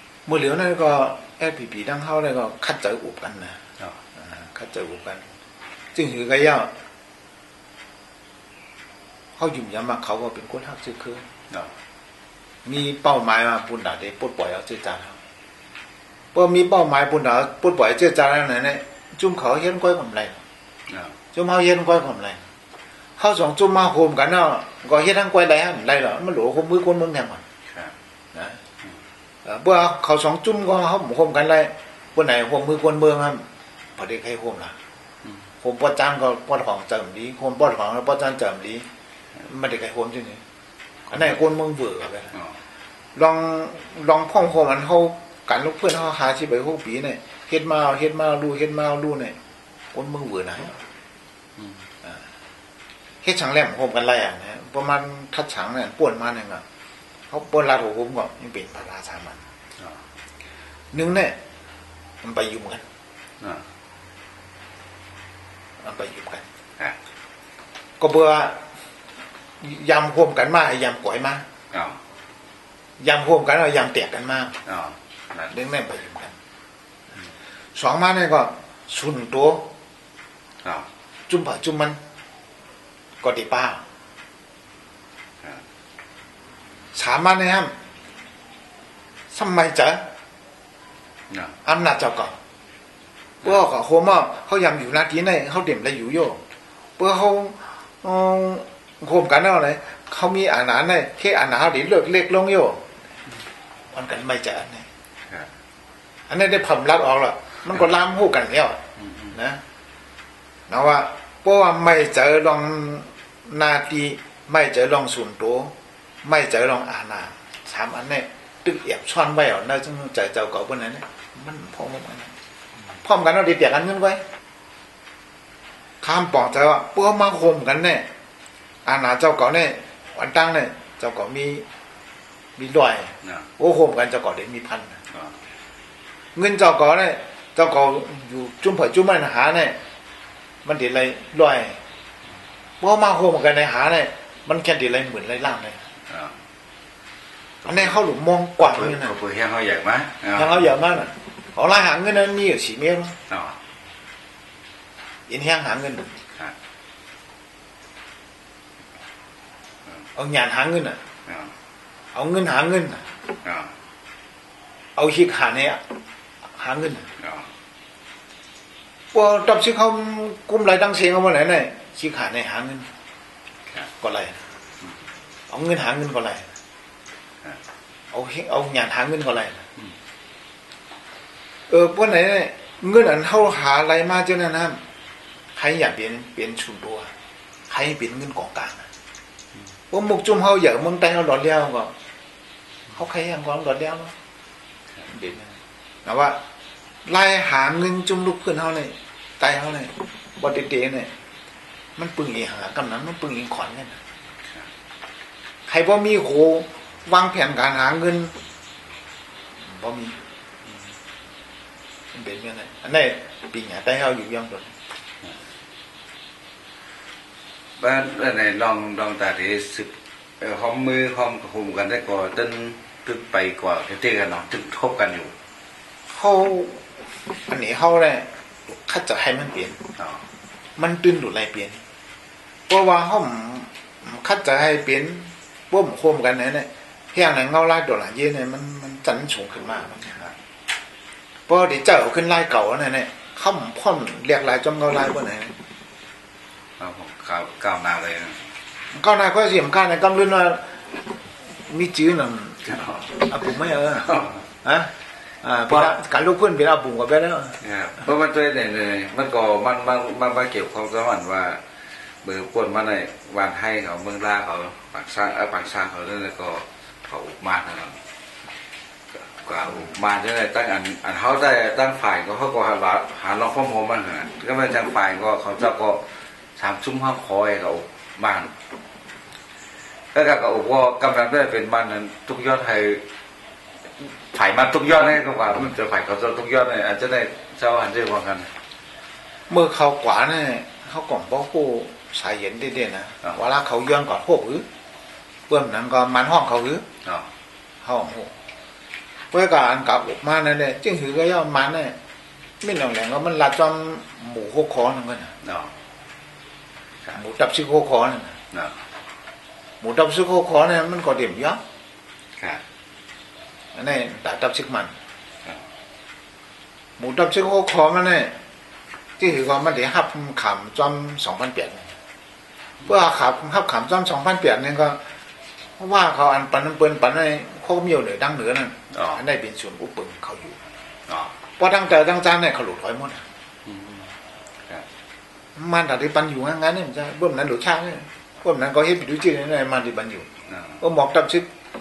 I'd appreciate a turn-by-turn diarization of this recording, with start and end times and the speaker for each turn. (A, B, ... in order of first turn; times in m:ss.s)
0:00.2-0:03.6 A
0:04.2-0:05.3 A
0:05.9-0:06.7 A
0:09.4-0:11.2 A
0:12.6-0:15.2 A
0:16.3-0:20.4 A
0:20.9-0:21.1 B
0:21.3-0:22.4 A
0:23.2-0:27.4 A
0:28.3-0:28.6 A
0:29.4-0:33.4 A
0:34.0-0:34.8 A
0:35.6-0:38.8 A
0:39.4-0:40.4 A
0:41.1-0:42.4 A
0:43.1-0:49.4 A
0:49.9-0:50.7 A
0:53.2-0:56.6 A
0:57.3-0:59.4 A
1:00.9-1:01.4 A
1:02.2-1:02.8 A
1:05.8-1:06.4 A
1:08.0-1:08.6 A
1:09.6-1:11.4 A
1:11.7-1:12.0 B
1:13.0-1:14.6 A
1:14.6-1:15.5 B
1:15.5-1:16.3 A
1:17.7-1:19.7 A
1:21.3-1:22.0 A
1:23.2-1:23.8 A
1:26.9-1:27.7 A
1:29.3-1:30.0 A
1:31.6-1:32.4 A
1:33.4-1:36.4 A
1:37.0-1:42.9 A
1:43.9-1:44.8 A
1:46.3-1:48.8 A
1:49.3-1:49.6 A
1:50.7-2:02.3 A
2:03.0-2:04.2 A
2:06.0-2:08.1 A
2:08.8-2:11.6 A
2:12.6-2:15.0 A
2:16.4-2:19.8 A
2:20.6-2:21.8 A
2:22.8-2:25.8 A
2:27.6-2:28.0 B
2:27.6-2:29.2 A
2:28.6-2:30.7 B
2:30.3-2:33.2 A
2:33.3-2:33.6 B
2:35.3-2:36.1 A
2:40.1-2:41.0 A
2:41.2-2:41.5 B
2:42.1-2:43.0 A
2:43.4-2:43.7 B
2:45.0-2:45.8 A
2:46.6-2:47.1 A
2:47.2-2:47.5 B
2:49.1-2:52.9 A
2:54.0-2:54.4 A
2:55.5-2:56.5 A
2:58.1-2:59.6 A
3:01.7-3:04.8 A
3:05.6-3:07.1 A
3:07.7-3:08.9 A
3:09.9-3:11.9 A
3:12.9-3:14.1 A
3:15.1-3:16.4 A
3:17.0-3:21.1 A
3:22.0-3:24.0 A
3:25.7-3:28.3 A
3:29.6-3:30.2 A
3:32.1-3:34.7 A
3:37.8-3:45.3 B
3:46.1-3:46.9 A
3:47.5-3:49.8 A
3:50.0-3:50.2 B
3:50.8-3:51.8 A
3:52.7-4:00.3 A
4:01.5-4:05.6 A
4:06.8-4:08.4 B
4:08.9-4:11.0 A
4:11.5-4:17.6 A
4:12.8-4:13.1 B
4:14.1-4:14.3 B
4:17.6-4:21.6 B
4:22.2-4:28.0 B
4:29.1-4:38.5 B
4:40.1-4:43.0 B
4:44.0-4:48.5 B
4:49.5-4:54.6 A
4:55.5-4:56.8 A
4:57.8-4:58.3 A
4:59.3-5:02.0 A
5:02.6-5:05.3 A
5:05.4-5:05.7 B
5:07.1-5:08.3 A
5:09.8-5:11.6 A
5:13.7-5:14.9 A
5:17.0-5:18.3 A
5:19.2-5:21.8 A
5:22.8-5:25.0 A
5:25.8-5:30.6 A
5:28.9-5:29.2 B
5:31.1-5:31.3 B
5:31.6-5:33.2 A
5:33.6-5:34.1 B
5:35.6-5:40.3 A
5:40.5-5:40.8 B
5:40.8-5:41.5 A